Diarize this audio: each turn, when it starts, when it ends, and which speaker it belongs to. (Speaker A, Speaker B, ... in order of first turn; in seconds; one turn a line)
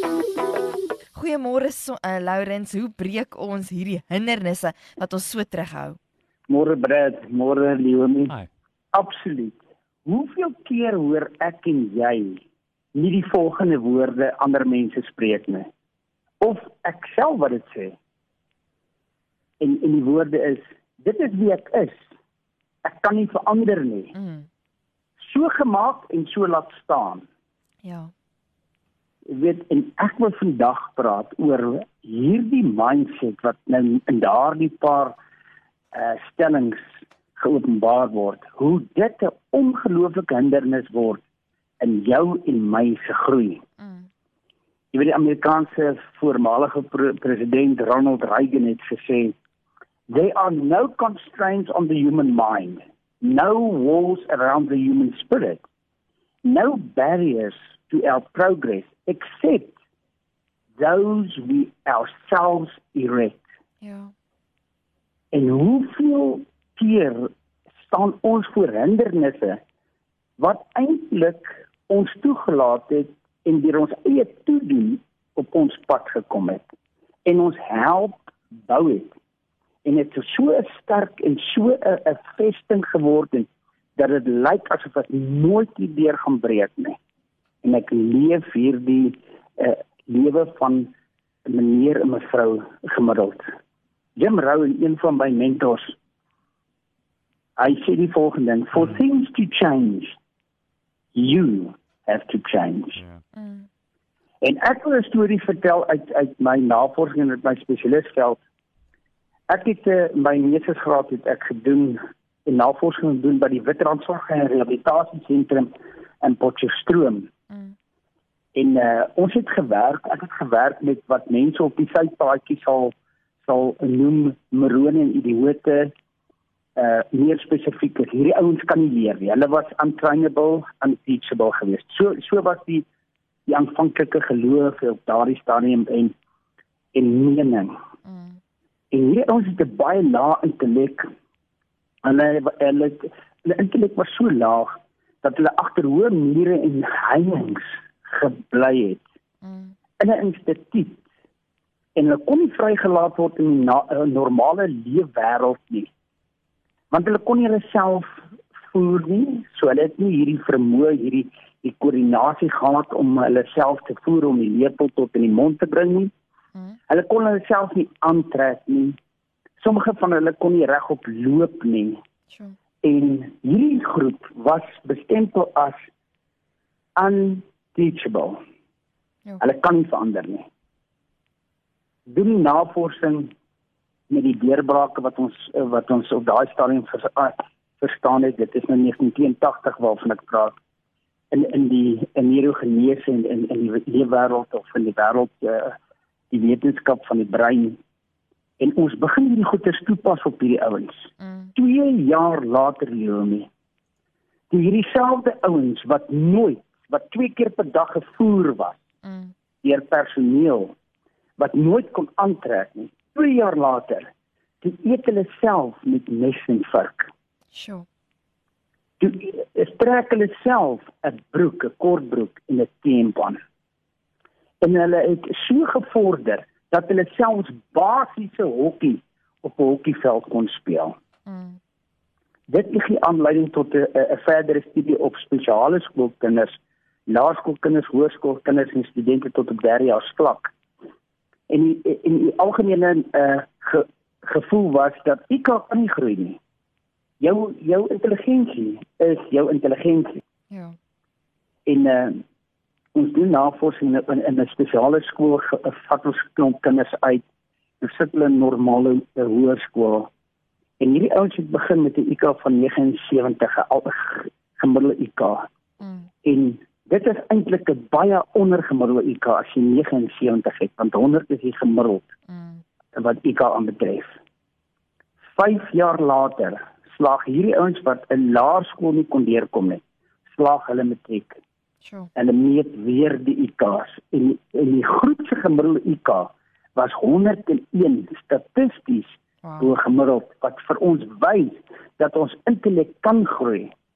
Speaker A: 1.1-6.0
Speaker B: 6.5-8.3
Speaker B: 8.9-12.4
Speaker B: 12.9-15.7
Speaker B: 16.4-17.9
Speaker B: 19.6-22.0
Speaker B: 22.8-24.1
Speaker A: 24.1-24.5
Speaker B: 25.2-27.2
Speaker A: 27.8-28.1
Speaker B: 29.3-35.1
Speaker B: 35.9-36.8
Speaker B: 37.4-41.2
Speaker B: 41.8-43.6
Speaker A: 43.8-44.1
Speaker B: 44.9-49.3
Speaker B: 50.1-55.6
Speaker B: 56.4-59.7
Speaker B: 60.8-63.4
Speaker A: 63.8-64.1
Speaker B: 65.3-67.3
Speaker B: 67.9-69.6
Speaker B: 70.4-76.7
Speaker B: 77.2-79.1
Speaker B: 79.8-87.0
Speaker B: 87.6-90.9
Speaker B: 91.5-93.4
Speaker B: 94.2-95.9
Speaker B: 97.6-100.1
Speaker B: 101.1-103.0
Speaker A: 103.3-103.7
Speaker B: 104.4-108.4
Speaker B: 109.5-117.3
Speaker A: 117.5-117.7
Speaker B: 118.5-125.9
Speaker B: 126.8-132.8
Speaker B: 133.5-136.1
Speaker B: 136.9-137.7
Speaker A: 138.1-138.4
Speaker B: 138.9-141.1
Speaker B: 142.0-149.0
Speaker A: 149.4-149.8
Speaker B: 150.0-151.0
Speaker B: 151.9-155.9
Speaker B: 156.9-166.1
Speaker B: 166.9-169.0
Speaker B: 169.6-172.0
Speaker A: 172.3-172.6
Speaker B: 172.8-175.8
Speaker B: 177.0-178.4
Speaker B: 179.4-180.4
Speaker B: 182.1-183.3
Speaker B: 184.1-190.6
Speaker B: 191.3-195.8
Speaker B: 196.3-197.8
Speaker B: 198.6-203.5
Speaker A: 201.2-201.5
Speaker B: 204.5-208.8
Speaker A: 209.0-209.3
Speaker B: 209.6-210.7
Speaker B: 211.4-214.1
Speaker B: 214.6-217.1
Speaker A: 217.5-217.8
Speaker B: 219.0-223.4
Speaker B: 224.6-230.9
Speaker A: 231.3-231.6
Speaker B: 232.5-236.5
Speaker B: 237.1-240.5
Speaker B: 241.5-246.4
Speaker B: 247.2-250.2
Speaker A: 250.5-250.8
Speaker B: 251.7-252.2
Speaker B: 252.9-257.2
Speaker B: 257.8-260.1
Speaker B: 260.8-265.4
Speaker A: 265.8-266.1
Speaker B: 266.2-272.1
Speaker A: 272.3-272.6
Speaker B: 272.9-274.1
Speaker B: 275.3-281.4
Speaker A: 281.8-282.1
Speaker B: 282.1-293.7
Speaker A: 289.4-289.7